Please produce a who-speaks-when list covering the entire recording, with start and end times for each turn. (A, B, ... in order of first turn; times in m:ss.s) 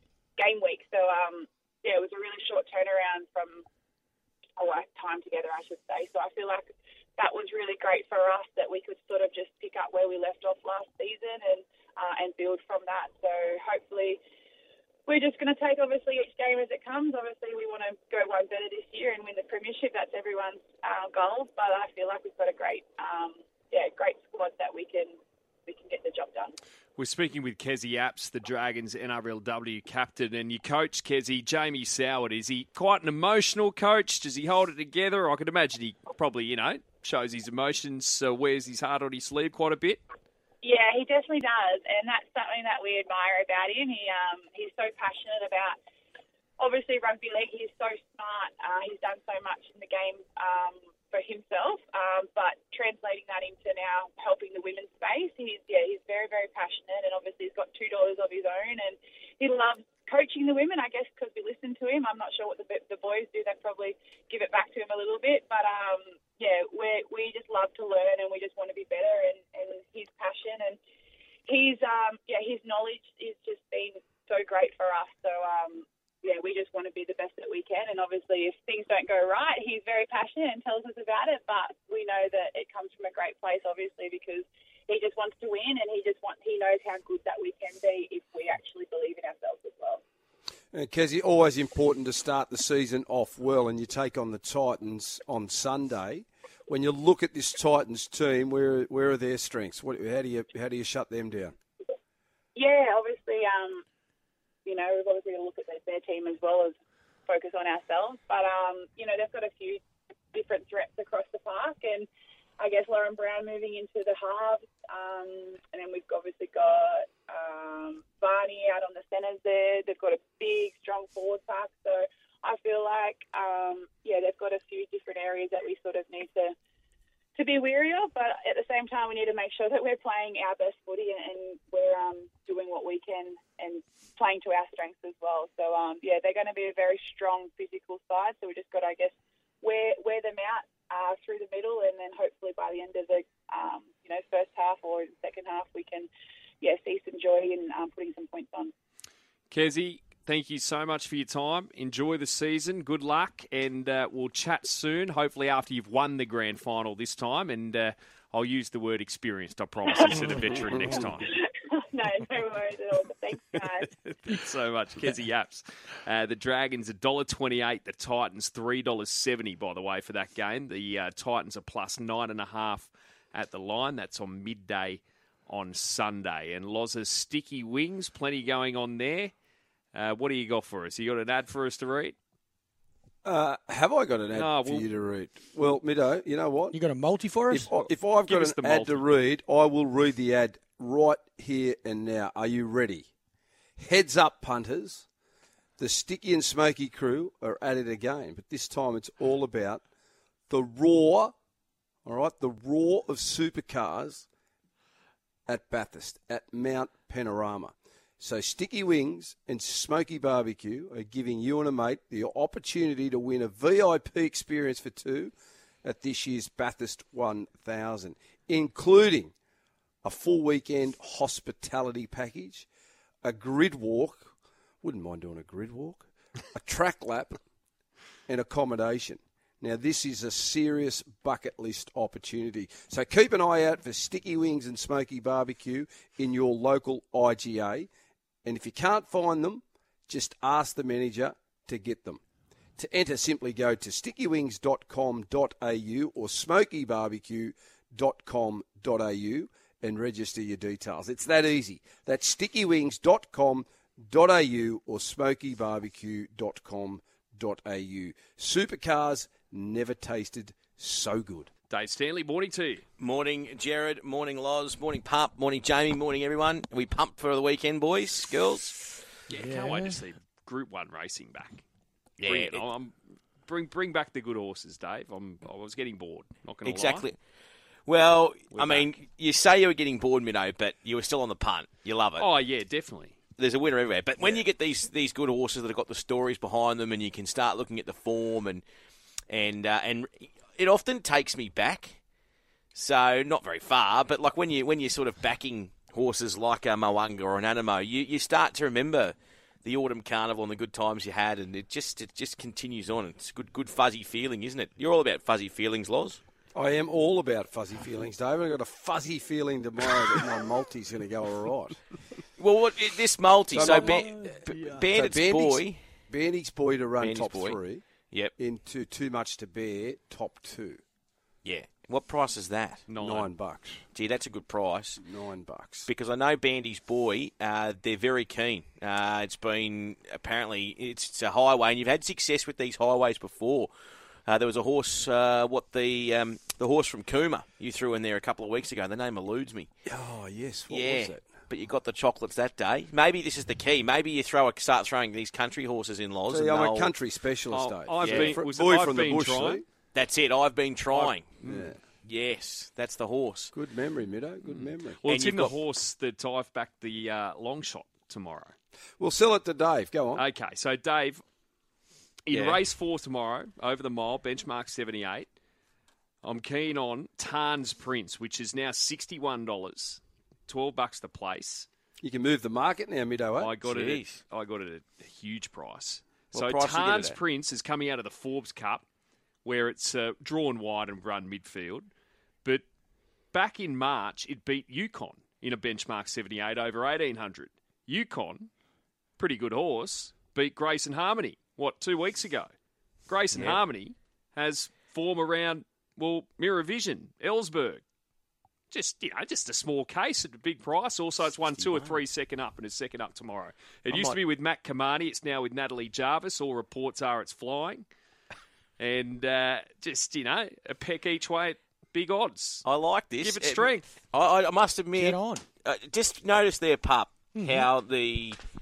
0:00.4-0:03.6 A
0:04.6-0:14.2 A
0:15.1-0:26.6 A
0:27.0-0:40.0 B
0:40.6-0:45.8 A
0:46.6-1:10.8 A
1:11.5-1:30.0 A
1:30.7-1:41.6 C
1:42.6-1:43.8 A
1:44.6-1:49.8 A
1:50.3-1:52.1 A
1:52.6-2:06.6 A
2:07.4-2:26.1 A
2:26.6-2:28.7 A
2:29.5-2:41.3 B
2:39.9-2:43.9 A
2:40.7-2:41.0 C
2:44.0-2:59.3 B
2:59.9-3:02.2 B
3:03.2-3:06.8 C
3:04.4-3:04.9 B
3:06.7-3:07.7 D
3:07.5-3:13.1 C
3:08.3-3:09.1 B
3:13.8-3:15.1 C
3:15.8-3:19.8 C
3:20.5-3:21.3 C
3:22.0-3:24.3 C
3:25.5-3:35.3 C
3:35.8-3:39.3 C
3:40.0-3:42.7 C
3:43.2-3:47.4 C
3:48.3-3:57.9 C
3:58.4-4:02.2 C
4:02.8-4:21.5 C
4:21.7-4:22.8 B
4:23.0-4:28.9 E
4:29.3-4:31.6 B
4:29.4-4:30.0 D
4:32.2-4:32.6 E
4:32.2-4:37.1 B
4:36.6-4:37.2 E
4:37.9-4:42.3 E
4:38.5-4:38.9 B
4:42.2-4:43.1 B
4:43.4-4:48.6 E
4:44.2-4:44.4 B
4:49.3-4:52.0 E
4:52.7-5:06.2 E
5:06.5-5:11.8 C
5:12.4-5:15.8 E
5:13.5-5:20.8 C
5:13.7-5:14.7 D
5:17.0-5:18.3 E
5:21.4-5:22.9 E
5:22.9-5:23.3 B
5:23.0-5:23.8 C
5:23.9-5:25.0 E
5:25.0-5:25.9 C
5:25.9-5:33.7 E
5:34.3-5:39.7 E
5:39.8-5:41.2 C
5:40.7-5:46.9 E
5:46.3-5:49.7 C
5:47.5-5:49.6 B
5:48.0-5:48.4 E
5:49.9-5:53.5 E
5:50.9-5:51.7 B
5:51.4-5:51.8 C
5:53.5-5:55.0 C
5:54.6-5:55.6 E
5:55.0-5:58.5 B
5:59.0-6:00.2 C
6:00.2-6:01.2 B
6:02.3-6:05.3 B
6:02.3-6:02.6 E
6:06.2-6:11.7 B
6:12.0-6:13.6 C
6:13.4-6:18.8 B
6:13.6-6:14.2 E
6:16.3-6:17.2 E
6:19.4-6:21.9 B
6:23.3-6:28.5 B
6:29.2-6:32.5 B
6:33.1-6:37.8 B
6:33.3-6:33.6 E
6:38.7-6:47.9 B
6:41.3-6:42.0 E
6:43.9-6:44.2 E
6:48.8-6:52.7 B
6:52.6-6:58.4 E
6:53.2-6:54.0 B
6:55.0-6:55.4 D
6:57.3-6:57.7 D